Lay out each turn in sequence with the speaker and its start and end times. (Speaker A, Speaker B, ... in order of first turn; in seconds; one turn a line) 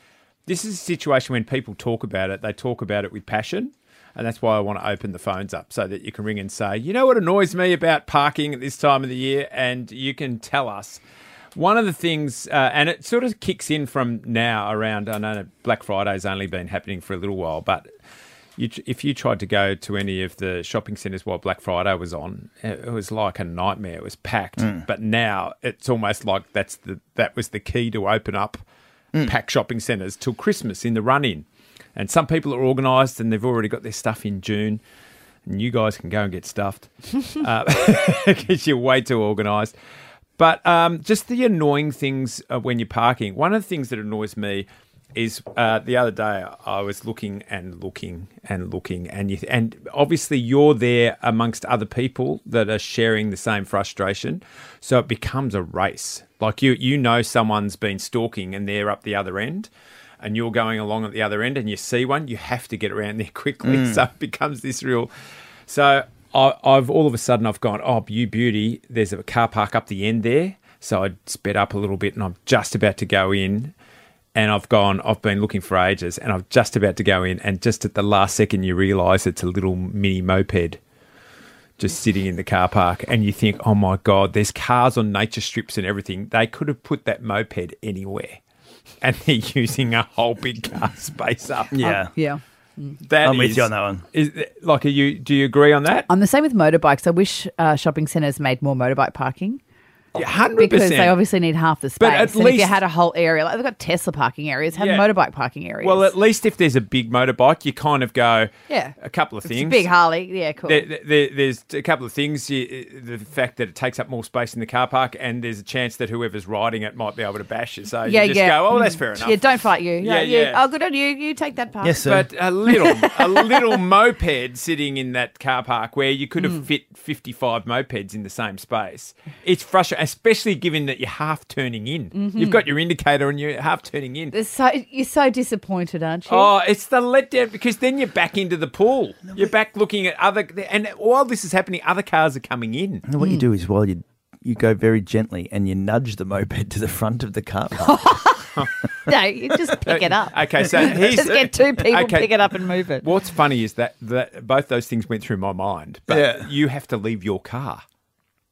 Speaker A: 0.5-11.0
Speaker A: 11.6-17.9
Speaker A: 18.6-28.6
Speaker B: 24.6-24.8
Speaker A: 29.2-31.4
Speaker A: 32.0-34.8
Speaker A: 35.5-39.7
Speaker A: 40.4-59.7
Speaker A: 60.2-65.1
Speaker B: 63.6-64.0
Speaker A: 65.7-73.7
Speaker A: 74.3-80.8
Speaker A: 81.8-88.4
Speaker A: 89.0-91.9
Speaker B: 91.7-92.1
Speaker C: 91.8-93.0
Speaker A: 93.1-96.1
Speaker B: 93.2-94.0
Speaker C: 96.1-99.6
Speaker A: 100.2-101.2
Speaker C: 100.5-106.1
Speaker A: 102.0-102.8
Speaker A: 104.7-105.1
Speaker A: 105.8-109.9
Speaker C: 108.7-110.9
Speaker A: 110.7-119.4
Speaker C: 118.0-122.0
Speaker A: 120.0-120.6
Speaker B: 121.8-122.3
Speaker A: 122.1-134.3
Speaker C: 122.7-123.8
Speaker C: 132.1-132.7
Speaker C: 134.3-136.5
Speaker A: 136.3-143.1
Speaker B: 143.1-148.0
Speaker C: 147.8-153.1
Speaker A: 148.6-148.8
Speaker A: 149.8-152.4
Speaker A: 153.0-157.8
Speaker B: 156.1-156.5